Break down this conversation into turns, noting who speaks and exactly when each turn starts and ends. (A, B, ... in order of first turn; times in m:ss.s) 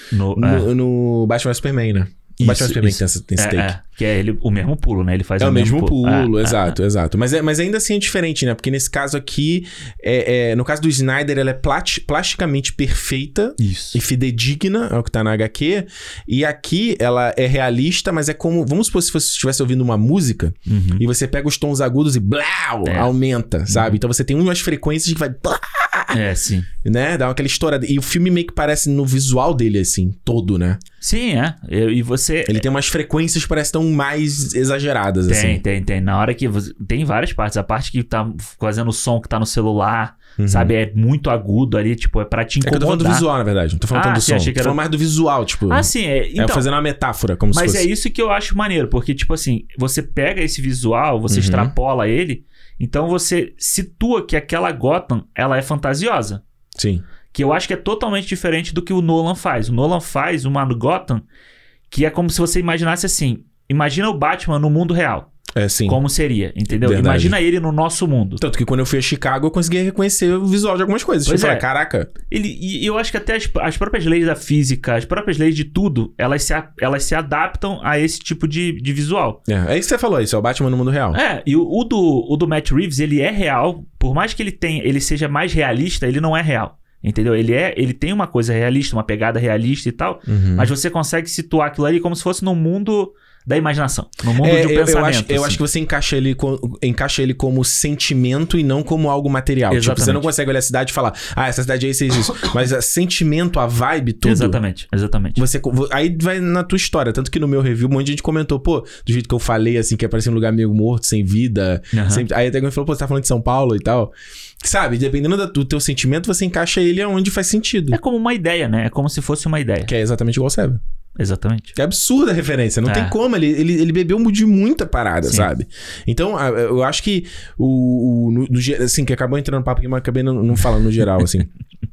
0:00.1-0:00.7 A
0:00.3-0:03.7 B
0:02.4-0:06.7 A
0:05.4-0:26.2 B
0:13.6-0:14.0 A
0:20.7-0:21.0 A
0:22.8-0:23.1 A
0:23.7-0:24.0 A
0:26.1-0:26.7 A
0:26.8-0:30.8 B
0:31.0-0:32.6 A
0:32.4-0:35.6 B
0:35.3-0:43.2 A
0:40.4-0:40.7 B
0:42.6-0:47.9 B
0:43.9-0:44.8 A
0:45.7-0:46.7 A
0:47.5-0:56.4 A
0:51.3-0:51.7 B
0:56.8-0:57.0 B
0:57.3-1:01.2 A
1:01.9-1:05.3 A
1:05.5-1:06.0 B
1:05.9-1:08.4 A
1:06.7-1:07.4 B
1:08.4-1:12.1 B
1:11.2-1:11.6 A
1:12.3-1:19.4 A
1:19.5-1:21.2 B
1:21.1-1:35.6 A
1:30.3-1:30.7 B
1:34.4-1:44.6 B
1:39.7-1:40.3 A
1:44.2-1:45.4 A
1:45.4-1:58.0 B
1:51.9-1:52.2 A
1:57.9-1:59.9 A
1:59.8-2:00.8 B
2:01.2-2:01.7 A
2:01.7-2:11.5 B
2:02.8-2:03.2 A